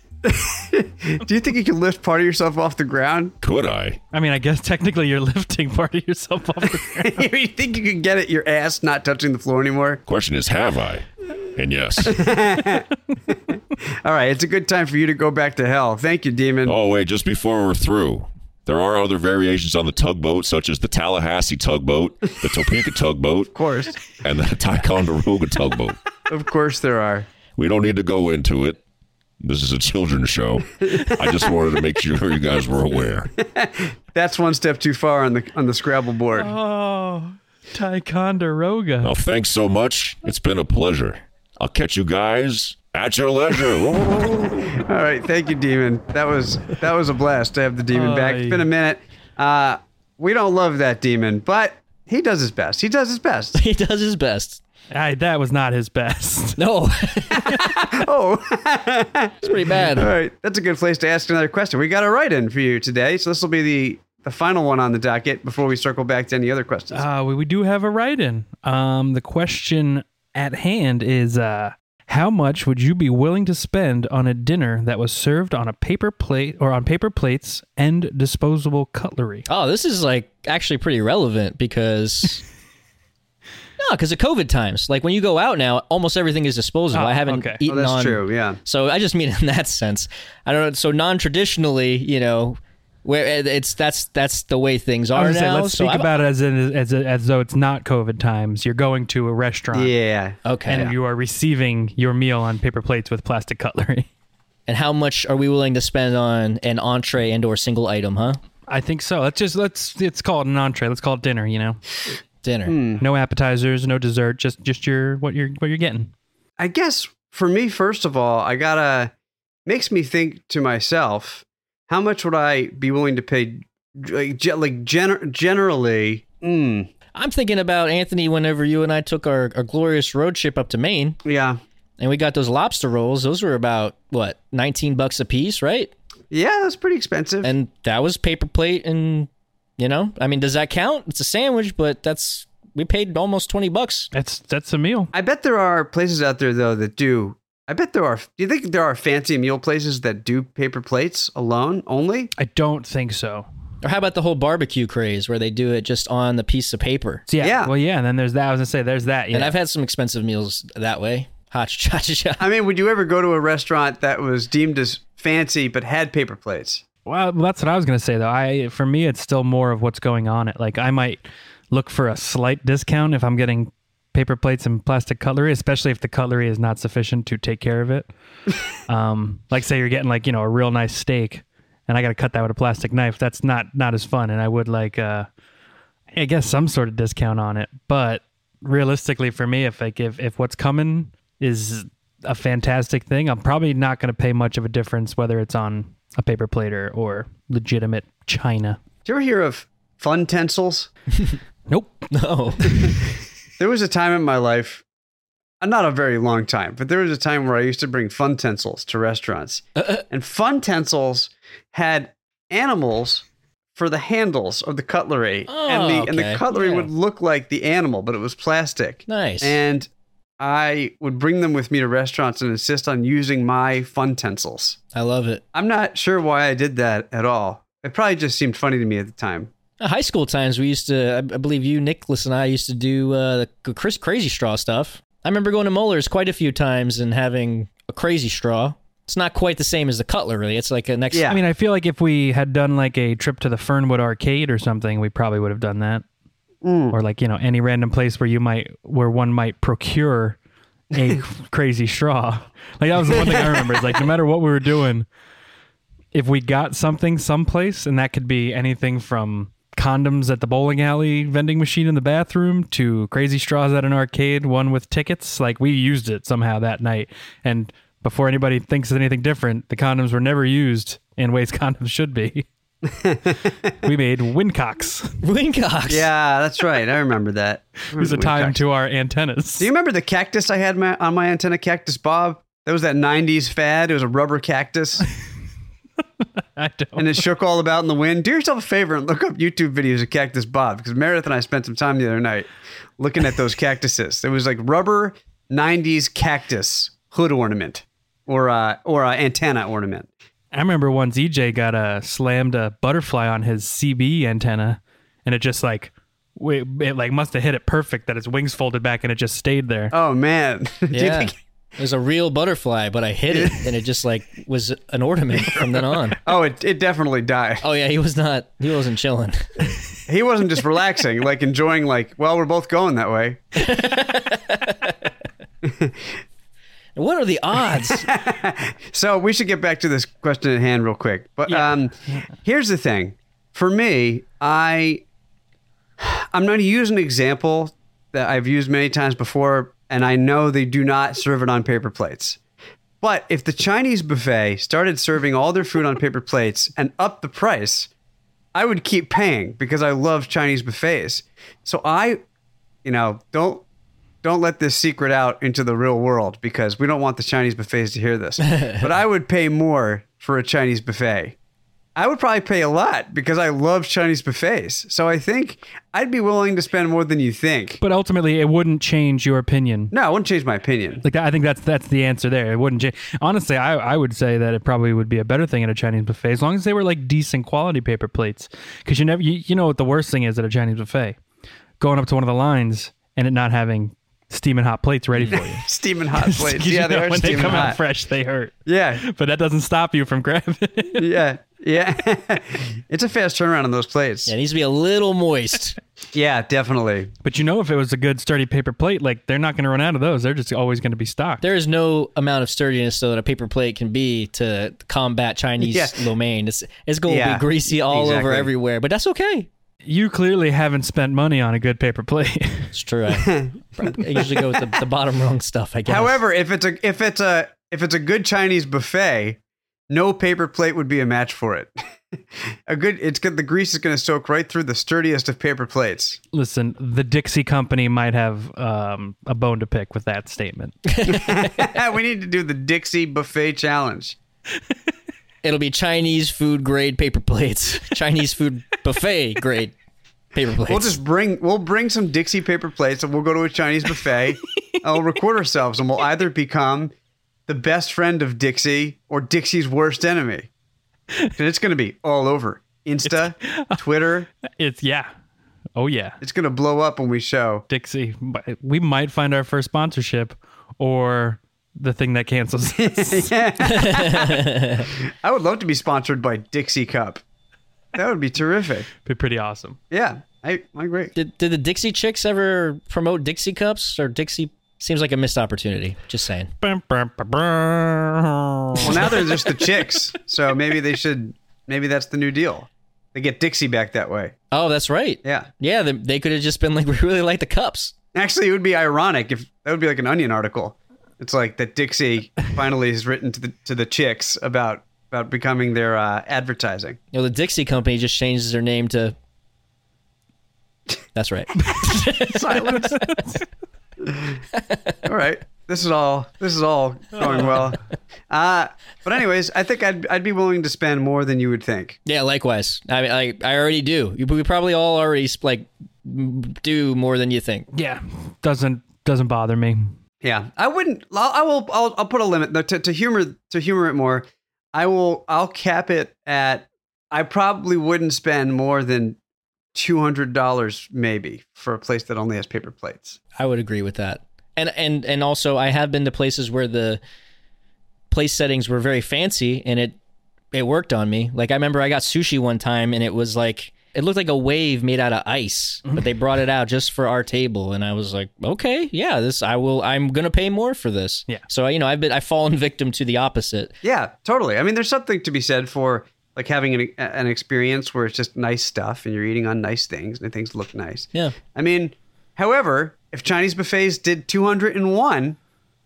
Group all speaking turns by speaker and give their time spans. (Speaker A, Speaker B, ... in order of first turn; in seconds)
Speaker A: 0.2-3.3, 6.9-10.0, 12.0-16.8, 23.5-24.0, 26.3-27.3, 30.8-31.5, 33.3-36.5, 43.9-53.6, 57.3-67.0, 87.6-88.6, 99.7-100.9, 112.7-113.0, 116.6-119.1, 119.7-126.9, 131.2-131.6, 136.3-137.5, 145.1-152.3, 157.4-157.7, 162.4-166.8, 199.0-200.9, 203.6-204.8, 205.6-224.8, 225.5-229.5, 241.1-241.4, 246.6-247.0, 253.2-253.4, 272.8-273.7, 275.9-278.6, 279.6-285.1, 286.9-292.5, 293.0-300.1, 309.9-311.3, 313.3-313.7, 316.2-317.6, 320.1-323.6, 325.6-326.1, 327.9-335.0, 336.0-342.4, 343.0-347.9, 348.5-352.2, 352.8-353.6, 354.2-361.4, 361.9-367.8, 369.9-371.0, 385.6-387.8, 388.6-389.0, 390.9-394.3, 396.1-397.1, 405.6-406.1, 407.1-408.5, 413.2-414.2, 415.9-421.8, 422.7-426.2, 431.1-434.2, 440.6-446.9, 447.5-450.5, 451.4-454.3, 456.2-457.6, 462.8-467.2, 467.9-468.9, 469.9-471.1, 478.8-484.3, 488.1-497.0, 501.9-503.1, 504.0-504.4, 505.0-507.8, 508.3-512.0, 520.2-529.2, 529.7-533.2, 553.8-565.4
Speaker B: 3.4-4.0, 10.1-12.4, 16.6-23.5, 24.1-26.0, 27.6-28.8, 29.4-33.3, 39.0-44.5
Speaker C: 4.1-7.2, 36.4-39.1, 47.9-48.7, 54.9-56.6, 66.9-79.5, 86.9-87.6, 95.2-99.9, 100.7-104.1, 108.7-111.8, 113.0-116.1, 144.1-145.1, 152.4-153.5, 157.3-159.5, 167.1-178.1, 178.9-185.3, 186.1-198.8, 201.7-202.1, 241.3-246.0, 246.9-250.4, 250.9-255.1, 256.1-272.4, 273.8-275.2, 277.9-279.7, 286.6-287.2, 300.5-309.9, 331.5-332.1, 367.8-369.9, 371.0-381.2, 381.8-391.1, 397.2-401.4, 409.8-412.7, 426.3-430.8, 453.1-453.8, 454.6-455.1, 455.8-456.2, 457.7-463.3, 469.0-469.8, 476.6-479.5, 501.6-503.4, 517.7-520.0
Speaker D: 53.5-54.6, 56.6-57.8, 59.4-60.1, 79.5-82.4, 83.8-96.1, 100.4-100.9, 104.7-108.4, 112.4-112.8, 127.1-131.2, 132.0-135.9, 137.4-144.1, 153.8-157.2, 159.3-162.5, 202.1-202.9, 209.8-210.0, 215.5-216.9, 219.1-219.6, 224.9-225.4, 229.8-241.3, 275.2-276.1, 310.9-316.2, 317.6-319.7, 323.6-324.9, 326.9-328.1, 385.1-385.4, 394.2-395.8, 401.4-409.5, 412.7-416.2, 430.9-431.7, 435.4-439.7, 440.3-441.0, 463.6-464.8, 471.1-476.5, 484.5-487.9, 497.1-499.1, 501.1-501.9, 504.5-505.0, 512.0-517.6, 533.4-537.0, 538.1-540.0, 540.5-553.7